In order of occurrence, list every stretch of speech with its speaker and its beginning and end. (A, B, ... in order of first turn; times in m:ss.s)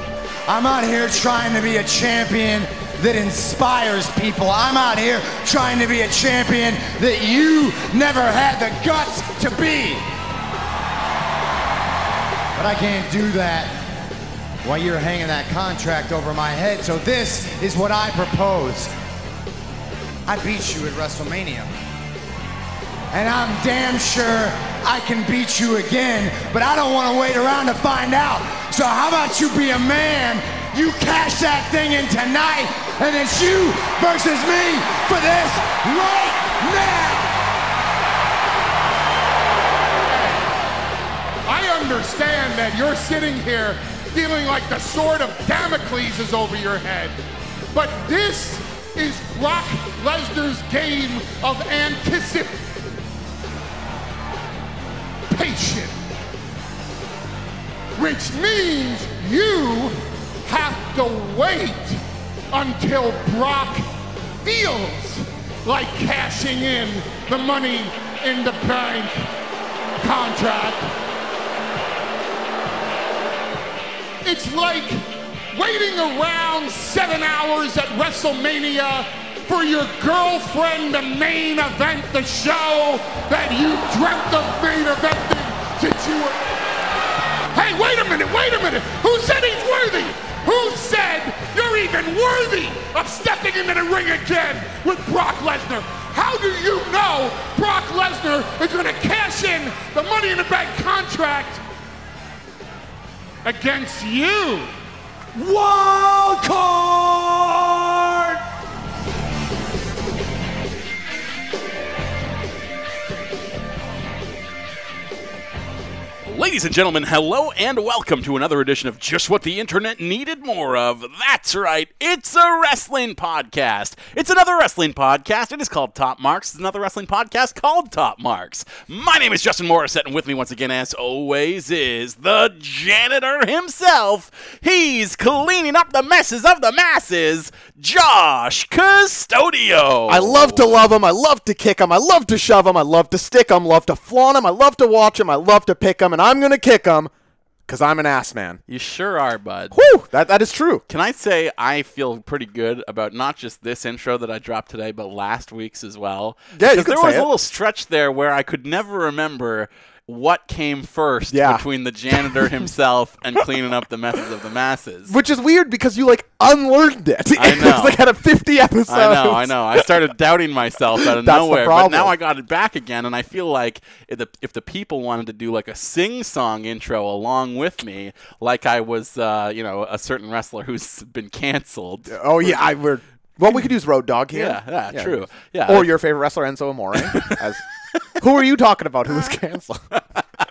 0:00.4-0:10.1 A
0:12.5-0:13.8 A
0:14.6-0:18.9 A
0:20.2-0:21.7 A
0:23.1-0:37.3 A
0:40.1-0:40.5 B
0:41.4-0:47.2 B
0:47.7-0:52.6 B
0:55.3-0:55.9 B
0:58.0-1:03.9 B
1:04.4-1:09.3 B
1:10.0-1:10.9 B
1:14.2-1:26.4 B
1:27.5-1:41.6 B
1:43.4-1:44.7 B
1:45.3-1:48.4 A
1:56.2-2:20.8 C
2:20.1-2:27.1 D
2:27.7-2:28.6 D
2:28.7-2:29.8 C
2:29.7-2:30.8 D
2:30.9-2:45.2 C
2:36.5-2:37.3 D
2:41.3-2:42.7 D
2:45.1-2:49.9 D
2:47.3-2:48.0 C
2:48.9-3:02.6 C
2:51.0-2:52.1 D
3:02.1-3:09.9 D
3:04.3-3:05.9 C
3:07.0-3:07.4 C